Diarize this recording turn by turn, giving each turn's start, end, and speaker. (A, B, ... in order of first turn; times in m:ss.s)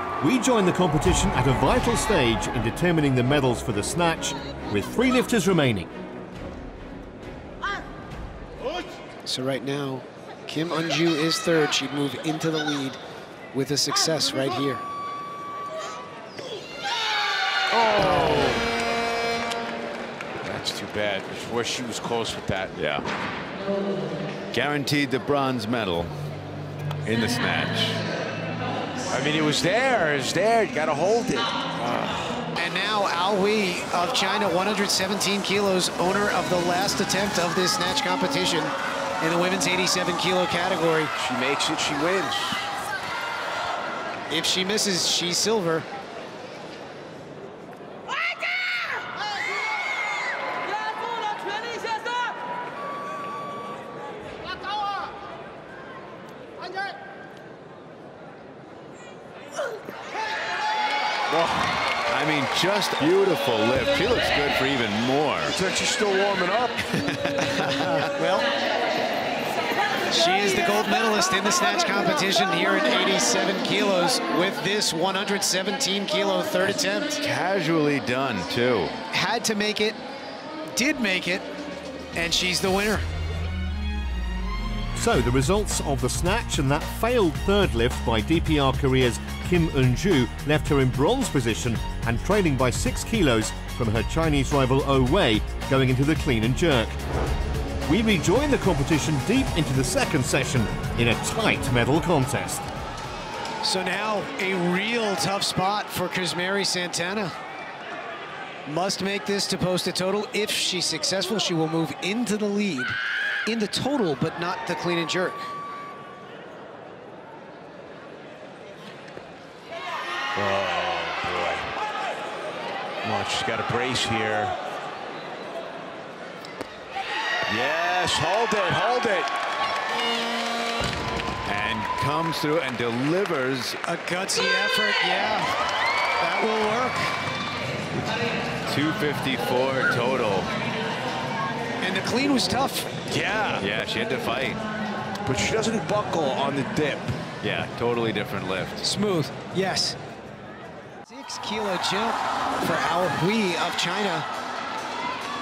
0:00.2-0:05.9 A
0:09.2-0:13.0 B
0:13.5-0:14.8 B
0:17.7-0:18.6 C
0:20.4-0:22.7 C
0:22.7-0:23.0 D
0:24.5-0:26.2 D
0:27.0-0:28.0 D
0:29.1-0:32.4 C
0:32.5-0:41.1 B
0:41.2-0:42.7 C
0:44.3-0:45.8 B
1:01.3-1:01.8 C
1:02.1-1:05.6 D
1:05.5-1:06.9 C
1:07.0-1:07.9 D
1:07.8-1:08.5 B
1:10.1-1:17.2 B
1:16.6-1:18.9 D
1:19.1-1:20.0 B
1:20.8-1:21.4 B
1:22.1-1:23.0 B
1:25.0-1:37.0 A
1:37.8-1:42.6 A
1:43.6-1:47.3 B
1:48.6-1:55.5 B
2:00.4-2:01.7 C
2:03.0-2:04.6 C
2:07.5-2:09.3 C
2:11.4-2:13.8 D
2:13.8-2:15.5 B
2:16.2-2:17.1 B
2:18.7-2:20.6 D
2:21.8-2:22.9 B
2:23.1-2:23.7 C
2:23.5-2:24.6 D
2:25.2-2:27.2 C
2:27.4-2:28.8 D
2:28.8-2:30.0 B
2:31.0-2:34.2 B